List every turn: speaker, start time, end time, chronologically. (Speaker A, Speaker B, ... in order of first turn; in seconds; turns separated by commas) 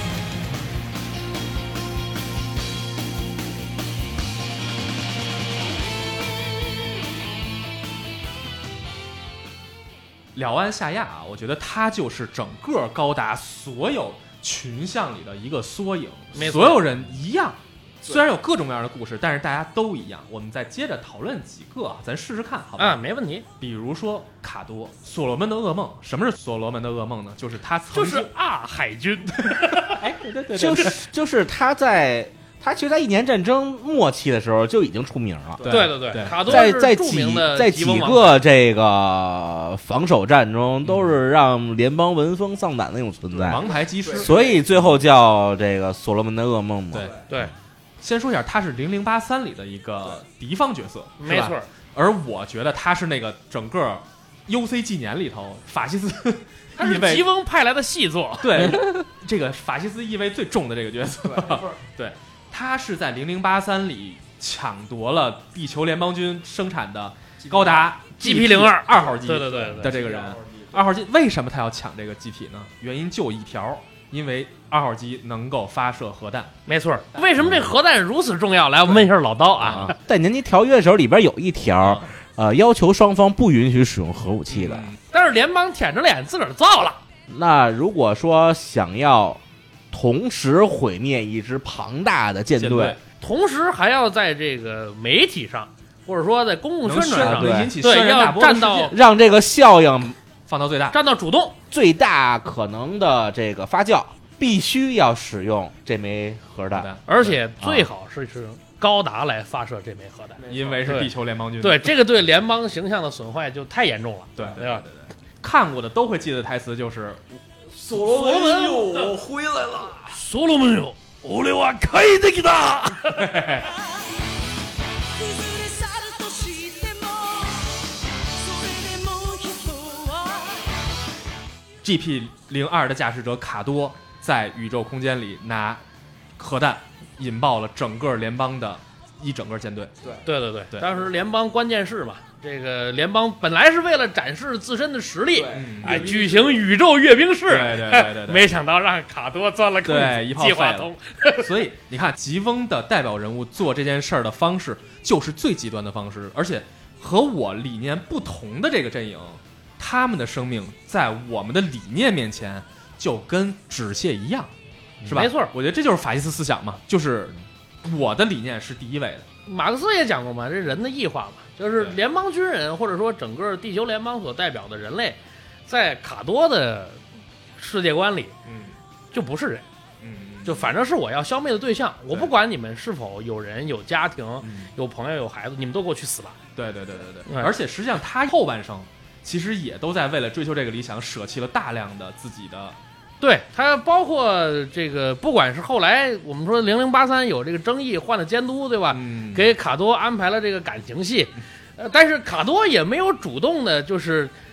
Speaker A: 10.3-23.0, Speaker B: 16.3-16.8, Speaker B: 22.8-23.4, Speaker A: 23.6-28.3, Speaker B: 27.9-30.0, Speaker A: 29.5-30.9, Speaker C: 30.0-35.7, Speaker D: 35.6-35.9, Speaker A: 35.6-36.5, Speaker B: 35.7-38.4, Speaker C: 36.4-47.1, Speaker A: 40.8-41.2, Speaker A: 43.5-45.0, Speaker D: 43.5-44.6, Speaker D: 46.9-47.2, Speaker A: 48.0-57.3, Speaker B: 51.2-51.7, Speaker B: 56.8-58.8, Speaker A: 58.4-76.5, Speaker D: 61.2-61.8, Speaker D: 67.4-67.9, Speaker B: 68.2-70.0, Speaker D: 68.9-70.9, Speaker B: 76.7-79.9, Speaker A: 79.6-79.9, Speaker C: 79.7-84.9, Speaker A: 84.5-85.0, Speaker B: 85.1-87.0, Speaker C: 87.3-93.0, Speaker A: 92.6-93.0, Speaker B: 93.2-98.9, Speaker A: 96.8-98.9, Speaker C: 97.2-97.8, Speaker C: 98.9-100.2, Speaker A: 100.5-101.0, Speaker B: 100.9-101.6, Speaker C: 101.7-106.9, Speaker A: 106.7-107.3, Speaker B: 107.1-114.8, Speaker C: 107.6-107.9, Speaker D: 110.4-111.0, Speaker A: 110.5-111.9, Speaker A: 114.3-117.4, Speaker D: 117.7-120.1, Speaker B: 117.9-119.2, Speaker B: 120.1-123.5, Speaker A: 123.1-123.7, Speaker E: 125.2-130.8, Speaker A: 131.8-135.8, Speaker A: 136.4-139.9, Speaker B: 140.2-151.6, Speaker D: 145.3-146.6, Speaker A: 145.5-146.1, Speaker A: 147.5-148.5, Speaker A: 149.8-164.5, Speaker A: 165.0-169.3, Speaker B: 165.1-165.5, Speaker B: 169.4-177.0, Speaker B: 177.6-178.3, Speaker A: 178.4-178.7, Speaker B: 179.1-179.6, Speaker A: 180.0-180.7, Speaker B: 180.4-186.4, Speaker A: 184.4-184.7, Speaker A: 186.6-192.8, Speaker B: 187.2-187.5, Speaker B: 193.2-204.3, Speaker A: 198.9-199.5